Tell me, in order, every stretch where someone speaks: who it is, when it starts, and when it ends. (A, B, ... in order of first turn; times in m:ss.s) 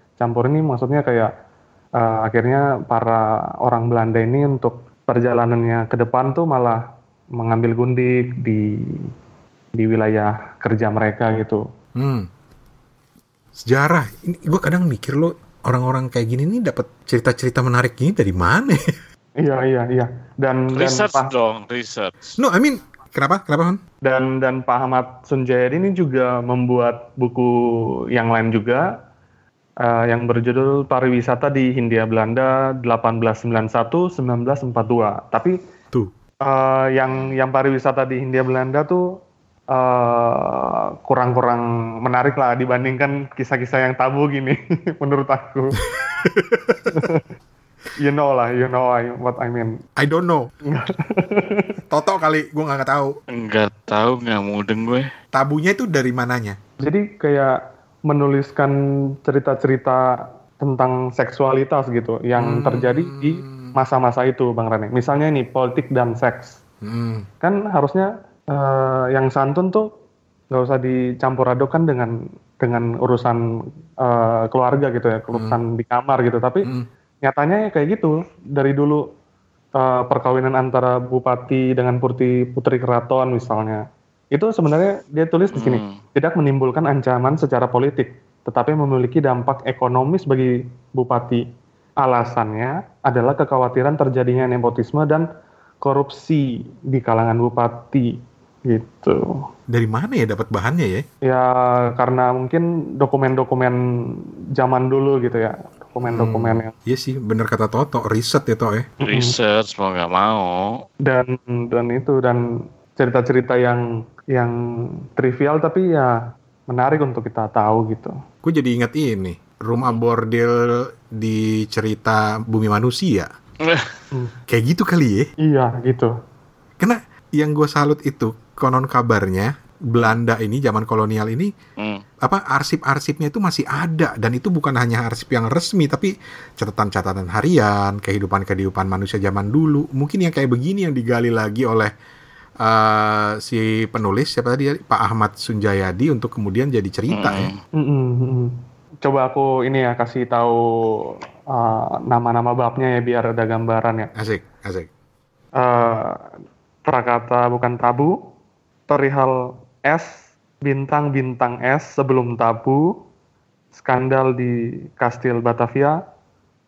0:00.2-0:01.3 A
0:02.0-0:06.8 A
0:07.4-0:09.1 A
0:09.8-0:11.7 A
0:12.0-0:12.3 B
0:13.6-0:19.0 B
0:19.4-0:21.3 A
0:20.7-0:22.4 C
0:22.4-0:23.8 B
0:24.0-0:28.9 A
0:29.8-0:35.5 A
0:36.4-0:39.0 A
0:39.7-0:45.8 A
0:45.9-0:47.0 B
0:46.9-0:47.3 A
0:48.0-0:49.8 A
0:50.0-0:50.5 B
0:50.6-0:51.7 A
0:51.9-0:53.1 B
0:53.3-0:55.1 C
0:55.3-0:56.6 B
0:56.8-1:00.0 A
1:00.6-1:06.6 A
1:02.4-1:03.7 B
1:06.8-1:07.3 B
1:07.4-1:09.9 A
1:10.5-1:13.4 A
1:14.0-1:16.7 A
1:15.3-1:15.6 B
1:17.2-1:19.1 A
1:19.8-1:31.5 A
1:25.5-1:26.0 C
1:32.0-1:35.3 A
1:35.8-1:39.5 A
1:39.7-1:41.1 B
1:41.2-1:46.7 A
1:46.1-1:48.9 B
1:49.0-1:49.4 A
1:49.0-1:50.8 C
1:51.0-1:52.4 A
1:53.0-1:56.2 A
1:56.7-1:58.2 A
1:58.4-2:03.3 B
2:03.6-2:04.0 C
2:04.5-2:05.3 B
2:05.4-2:06.1 A
2:06.8-2:11.5 B
2:11.8-2:12.0 C
2:12.2-2:21.9 B
2:22.6-2:27.5 B
2:27.1-2:27.6 C
2:27.8-2:34.1 A
2:34.2-2:34.9 B
2:35.6-2:36.3 A
2:36.8-2:38.2 A
2:38.9-2:43.0 A
2:43.8-2:46.0 A